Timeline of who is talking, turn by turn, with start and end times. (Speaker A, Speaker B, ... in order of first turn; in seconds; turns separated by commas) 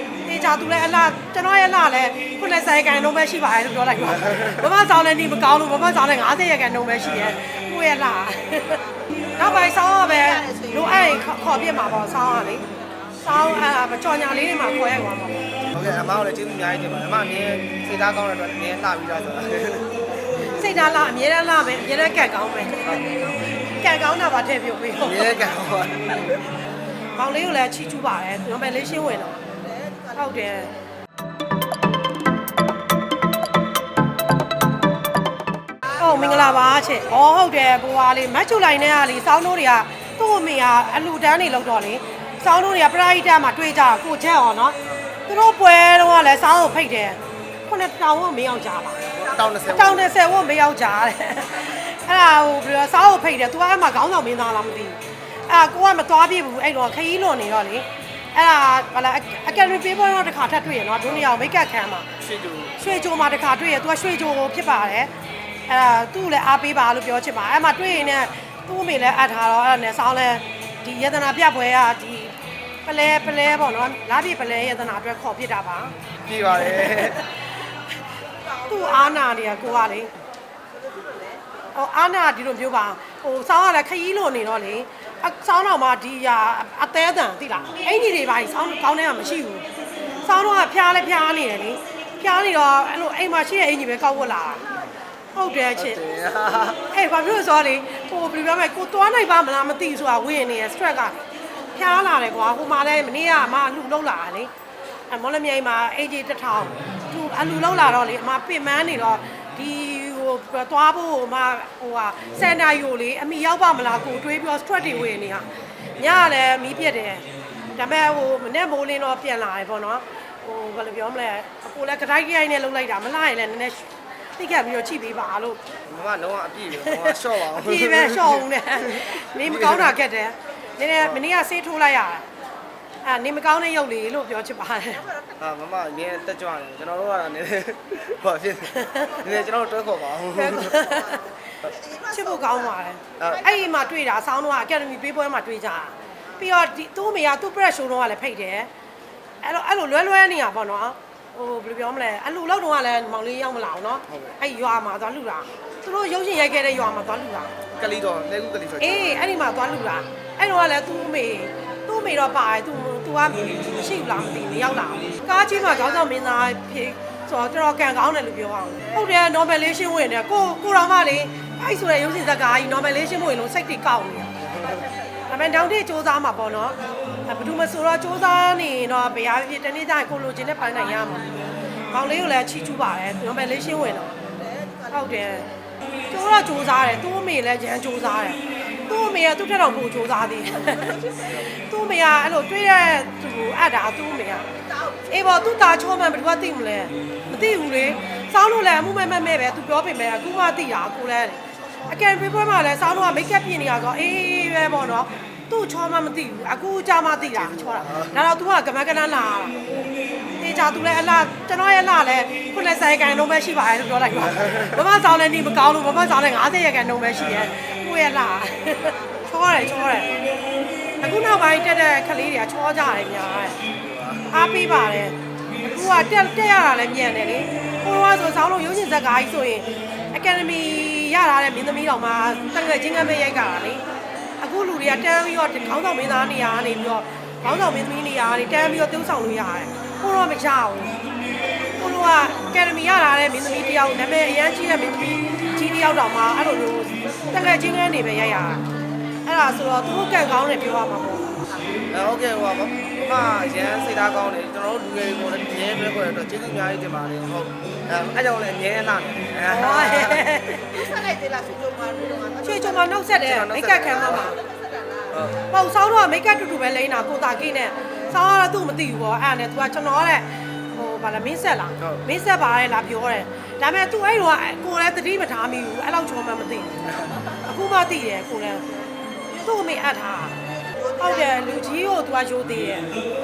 Speaker A: 0.2-12.7, Speaker B: 7.1-7.4, Speaker C: 10.2-10.8, Speaker A: 13.2-15.4, Speaker B: 15.7-20.0, Speaker A: 20.5-25.3, Speaker B: 25.0-26.4, Speaker A: 27.1-29.4, Speaker A: 30.1-30.7, Speaker A: 35.9-62.1, Speaker B: 36.2-36.5, Speaker B: 49.1-50.1, Speaker B: 62.2-62.8, Speaker A: 62.8-65.1, Speaker A: 65.7-76.0, Speaker B: 76.2-77.2, Speaker A: 76.7-77.3, Speaker A: 78.6-80.1, Speaker A: 81.7-89.7, Speaker A: 90.2-94.7, Speaker A: 95.3-96.0, Speaker B: 95.8-96.9, Speaker A: 96.9-101.2, Speaker A: 101.7-104.5, Speaker A: 105.1-125.6, Speaker B: 125.9-129.9, Speaker A: 126.7-132.3, Speaker A: 133.0-135.1, Speaker B: 135.4-140.8, Speaker A: 138.8-139.2, Speaker A: 140.3-141.4, Speaker C: 141.8-142.5, Speaker A: 142.0-148.7, Speaker B: 143.2-143.5, Speaker A: 149.4-157.6, Speaker B: 154.1-154.4, Speaker B: 157.7-159.2, Speaker A: 158.8-174.3, Speaker B: 174.5-174.8, Speaker A: 175.3-181.3, Speaker A: 181.9-184.2, Speaker C: 184.6-184.9, Speaker A: 184.9-185.5, Speaker A: 186.1-194.6, Speaker C: 194.8-195.1, Speaker A: 195.1-209.6, Speaker B: 207.3-208.2, Speaker A: 210.4-220.1, Speaker A: 221.0-223.6, Speaker B: 223.8-224.3, Speaker A: 224.3-233.8, Speaker A: 234.4-241.0, Speaker A: 241.8-248.7, Speaker A: 249.2-251.3, Speaker B: 251.9-260.3, Speaker A: 259.5-260.8, Speaker C: 260.8-262.7, Speaker A: 262.4-264.4, Speaker B: 263.2-264.4, Speaker C: 264.4-265.1, Speaker B: 265.1-265.4, Speaker A: 265.5-278.7, Speaker A: 279.3-282.9, Speaker C: 280.6-281.4